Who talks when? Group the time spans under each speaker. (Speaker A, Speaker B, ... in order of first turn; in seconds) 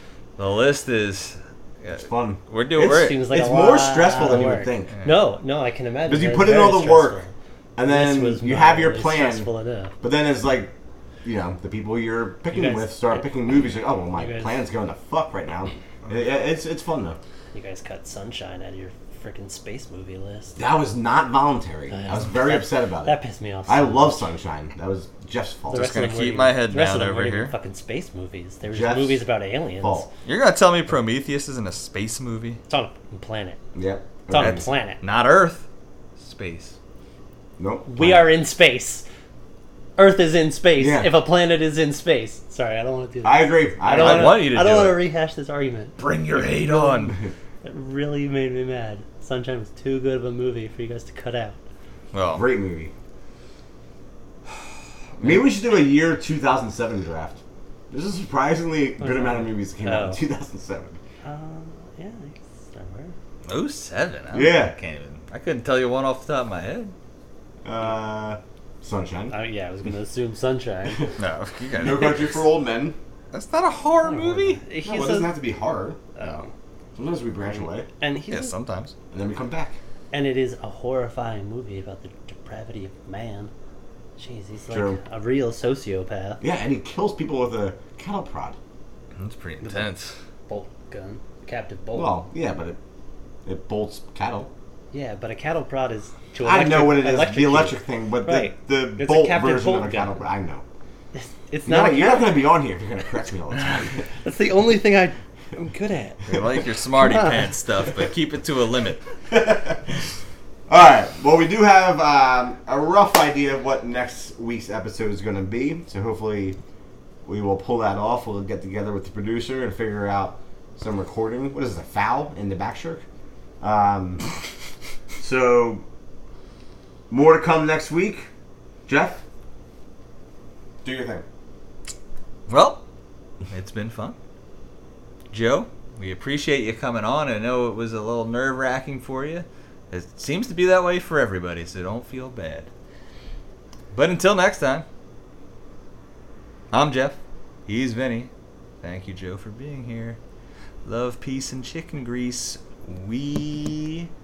Speaker A: 0.4-3.2, 25.7-27.5, 30.2-32.6, 34.4-35.7, 36.2-36.8, 43.9-45.0, 46.0-47.2, 52.1-52.4, 63.5-66.9, 71.2-72.4, 73.3-74.6, 78.3-78.9, 89.2-90.1, 106.3-109.0, 132.5-132.8, 133.5-134.2, 135.3-142.7, 143.9-144.8, 146.7-148.3, 148.8-150.2, 150.8-154.1
Speaker B: 2.0-4.9, 6.1-7.2, 7.8-9.5, 10.0-10.7, 11.2-17.2, 20.6-23.1, 23.7-25.9, 28.7-29.2, 29.8-30.1, 33.7-34.6, 37.6-38.3, 40.8-41.1, 43.2-44.5, 52.3-52.9, 55.2-57.4, 57.9-61.0, 64.3-64.7, 67.6-69.3, 71.8-73.0, 74.8-76.1, 77.0-77.9, 79.1-79.8, 84.7-85.0, 86.4-88.5, 91.9-92.8, 93.5-94.5, 96.4-100.6, 101.7-104.1, 109.3-110.0, 110.7-116.6, 117.2-123.0, 123.6-124.2, 125.2-125.8, 127.1-128.3, 128.9-129.2, 130.8-131.2
Speaker C: 2.8-9.9, 12.5-13.2, 14.1-14.6, 17.5-20.6, 21.9-24.2, 25.7-30.1, 32.7-33.6, 34.3-35.0, 37.9-39.0, 40.0-46.0, 46.7-47.0, 47.6-51.6, 59.0-60.2, 61.2-63.1, 69.3-71.2, 74.0-75.3, 76.2-76.5, 77.6-78.5, 80.1-83.5, 84.2-86.4, 90.5-92.2, 94.9-100.2, 101.1-102.3, 104.2-106.3, 106.9-107.4